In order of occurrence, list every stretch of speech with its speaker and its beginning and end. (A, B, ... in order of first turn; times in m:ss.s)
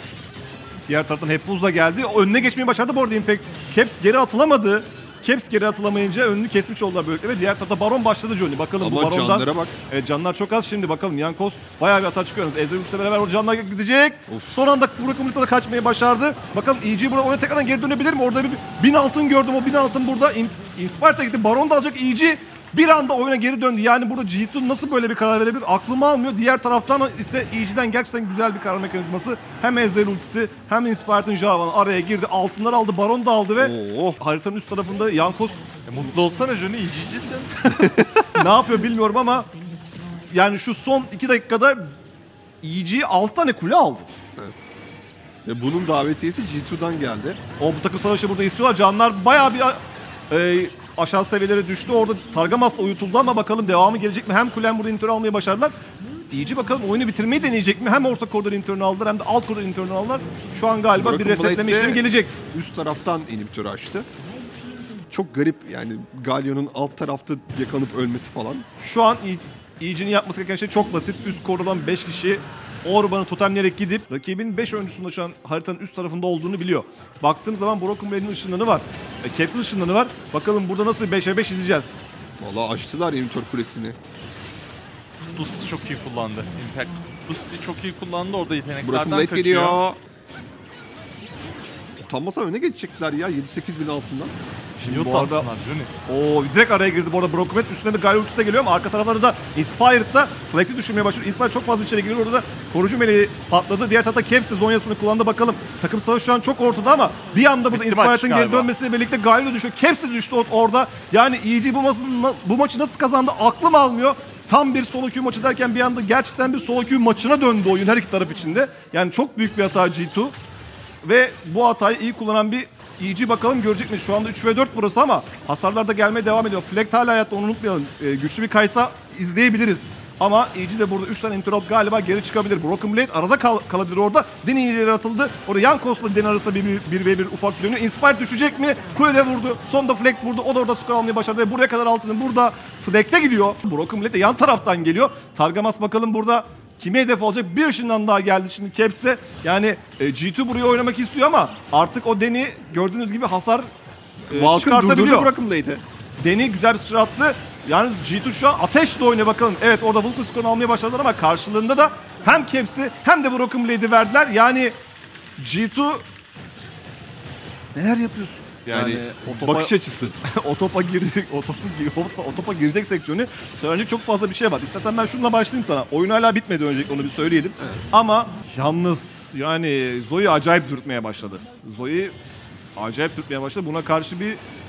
0:00.9-0:35.7 A
0:08.8-0:09.7 B
0:33.6-0:34.2 B
0:35.8-0:37.6 C
0:37.8-0:38.2 B
0:38.3-0:39.5 A
0:40.3-0:42.0 A
0:42.6-0:44.1 A
0:44.4-0:44.7 B
0:45.4-0:47.4 B
0:47.6-0:55.8 A
0:56.3-1:02.4 A
1:00.9-1:04.1 B
1:05.1-1:08.6 B
1:08.8-1:22.0 A
1:22.4-1:24.0 B
1:25.3-1:29.8 C
1:28.8-1:30.0 B
1:32.0-1:34.3 B
1:34.8-1:35.5 A
1:34.8-1:35.9 C
1:36.1-2:00.4 A
1:47.7-1:48.7 C
2:01.0-2:33.7 A
2:34.3-2:35.8 B
2:34.3-2:35.3 A
2:36.2-2:44.7 A
2:45.4-2:46.0 A
2:47.7-3:02.1 A
2:48.7-2:50.2 B
3:02.8-3:04.4 A